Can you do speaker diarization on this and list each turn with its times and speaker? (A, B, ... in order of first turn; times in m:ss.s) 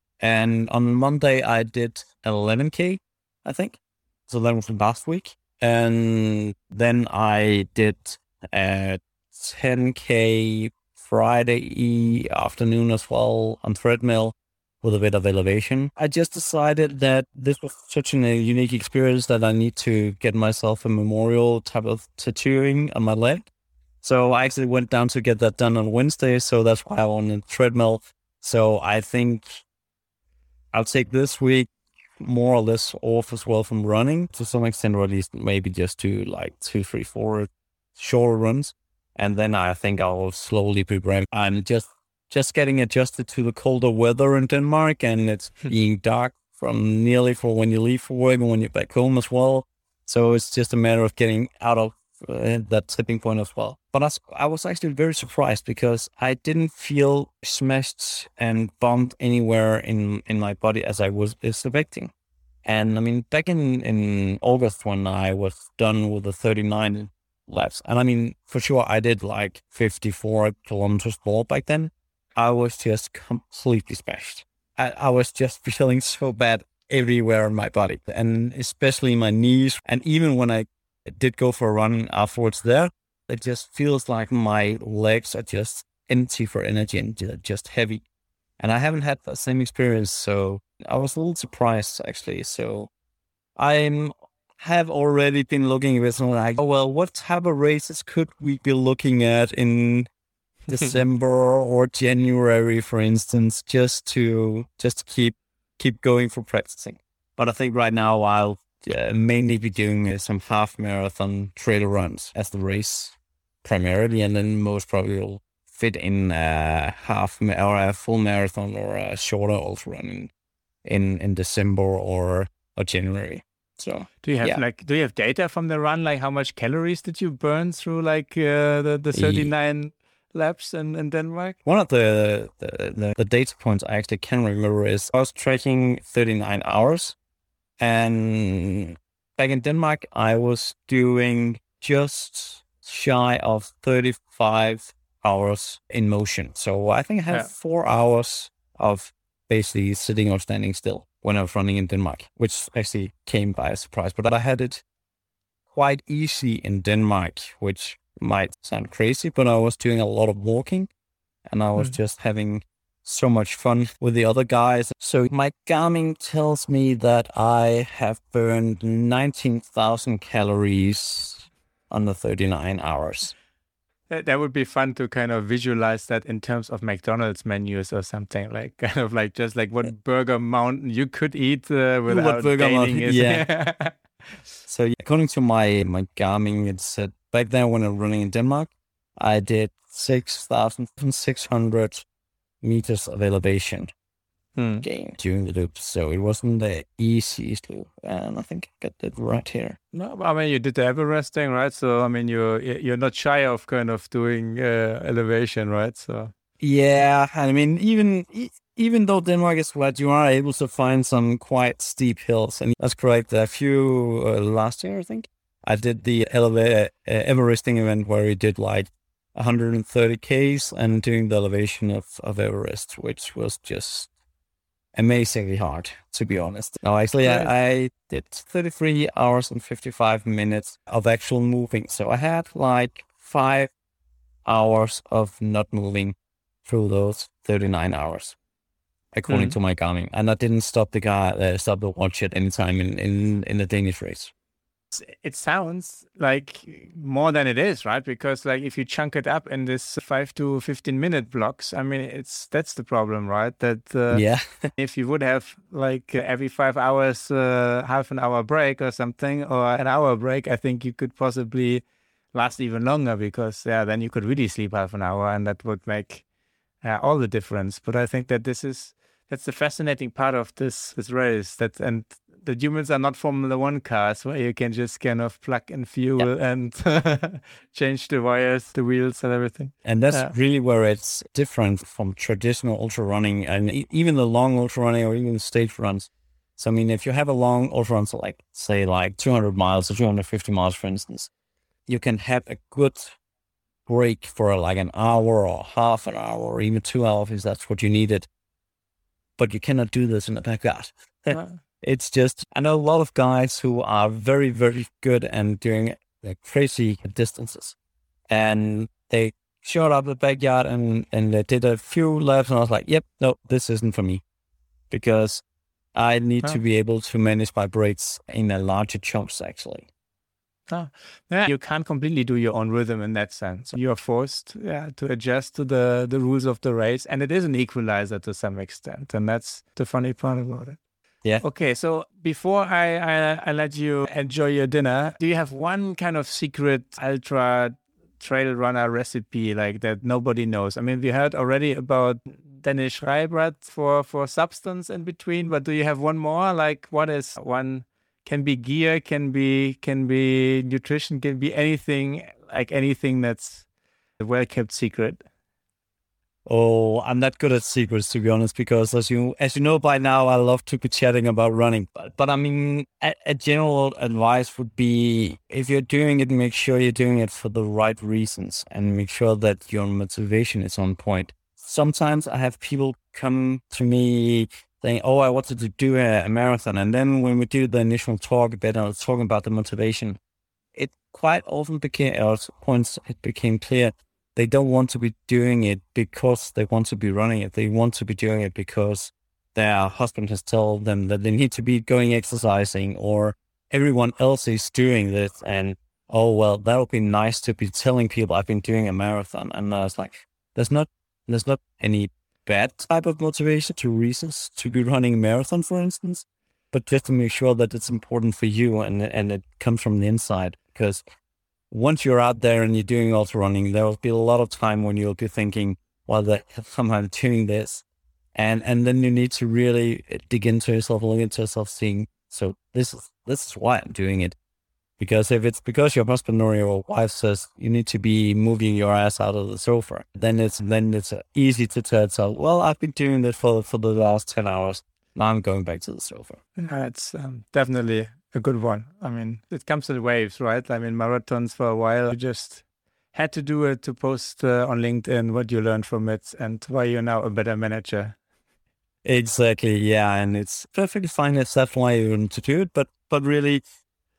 0:00.2-0:23.5 A
0:24.0-0:29.6 A
0:30.7-1:02.1 A
1:02.6-1:28.0 A
1:28.6-1:32.9 A
1:33.6-1:40.1 A
1:40.7-2:00.3 A
2:00.8-2:04.6 A
2:04.2-2:11.6 B
2:09.1-2:09.5 A
2:11.6-2:17.2 A
2:17.8-2:34.8 A
2:35.7-2:40.9 A
2:41.4-2:53.3 A
2:54.1-3:04.0 B
3:02.1-3:03.4 A
3:04.7-3:12.0 A
3:12.6-3:13.9 A
3:14.6-3:14.8 B
3:14.8-3:19.8 A
3:19.9-3:26.3 B
3:26.6-3:44.1 A
3:44.9-3:53.7 A
3:47.2-3:47.5 B
3:54.4-3:58.3 A
3:59.1-4:04.3 A
3:59.3-3:59.6 B
4:04.9-4:14.2 B
4:14.1-4:14.7 A
4:14.8-4:26.2 B
4:26.8-4:40.3 B
4:39.8-4:51.3 A
4:51.9-4:53.2 A
4:53.9-4:58.3 A
4:59.4-5:07.8 A
5:01.3-5:01.6 B
5:08.3-5:14.2 A
5:14.9-5:15.4 A
5:15.9-5:19.9 A
5:20.7-5:30.8 B
5:31.4-5:53.6 B
5:54.2-5:55.2 B
5:56.4-6:20.2 A
6:20.7-6:51.0 A
6:51.7-6:57.8 A
6:58.3-7:04.4 A
7:05.0-7:16.4 A
7:16.6-7:28.2 B
7:29.0-7:33.6 A